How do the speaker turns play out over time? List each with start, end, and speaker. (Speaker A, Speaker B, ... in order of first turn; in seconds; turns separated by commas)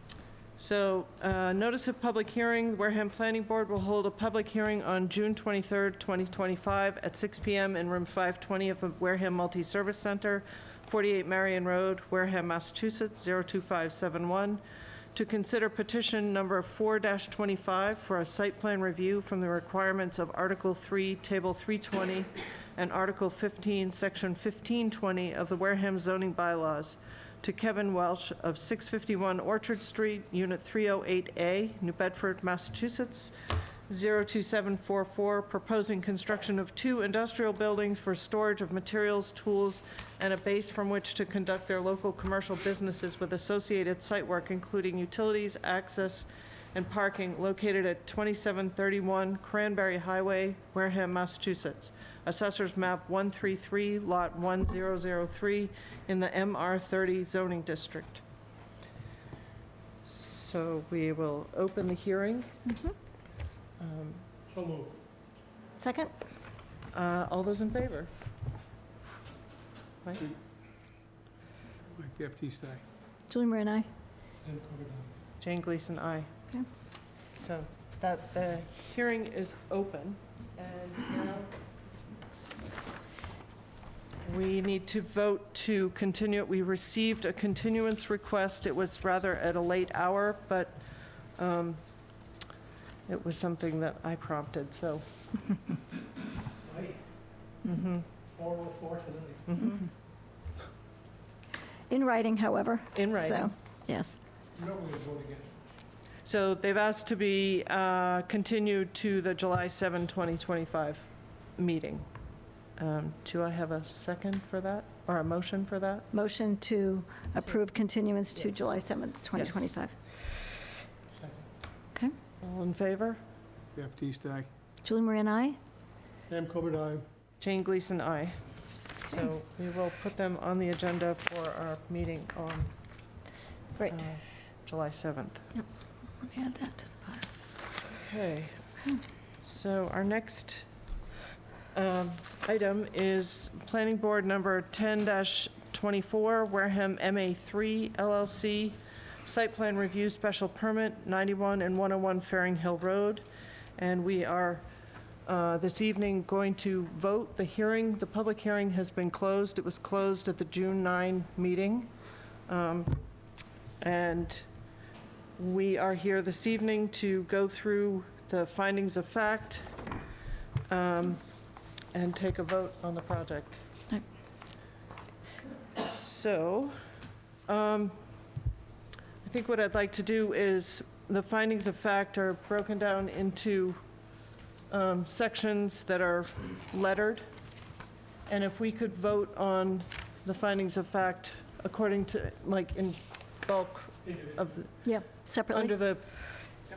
Speaker A: 0.6-14.6, Speaker A: 15.1-33.3, Speaker A: 33.9-58.2, Speaker A: 60.0-62.5, Speaker B: 62.7-62.9, Speaker A: 63.8-64.2, Speaker C: 64.5-65.0, Speaker B: 65.8-66.1, Speaker A: 66.9-68.1, Speaker A: 70.0-70.3, Speaker C: 71.9-72.8, Speaker B: 73.3-73.9, Speaker C: 74.4-75.1, Speaker A: 75.4-76.3, Speaker A: 77.3-81.5, Speaker A: 84.2-90.8, Speaker A: 91.3-91.8, Speaker A: 93.1-95.0, Speaker C: 96.6-97.0, Speaker A: 97.6-98.1, Speaker C: 98.2-99.4, Speaker A: 99.5-99.8, Speaker B: 101.9-104.2, Speaker A: 102.9-103.5, Speaker C: 104.5-105.5, Speaker A: 106.2-112.0, Speaker A: 112.8-116.1, Speaker B: 116.1-119.9, Speaker A: 119.3-119.7, Speaker A: 122.4-123.2, Speaker C: 123.7-124.5, Speaker B: 124.8-125.6, Speaker C: 126.3-127.0, Speaker A: 127.4-128.4, Speaker A: 129.0-132.7, Speaker A: 133.8-135.5, Speaker B: 136.2-137.3, Speaker A: 137.9-138.5, Speaker A: 139.4-140.7, Speaker A: 141.7-153.2, Speaker A: 153.8-154.6, Speaker A: 155.2-161.9, Speaker A: 162.5-163.0, Speaker A: 163.8-164.4, Speaker A: 165.4-169.7, Speaker A: 170.7-171.2, Speaker A: 171.9-173.6, Speaker A: 175.8-176.8, Speaker A: 177.5-177.9, Speaker A: 179.2-183.8, Speaker A: 184.7-187.2, Speaker A: 188.3-196.1, Speaker B: 194.8-195.7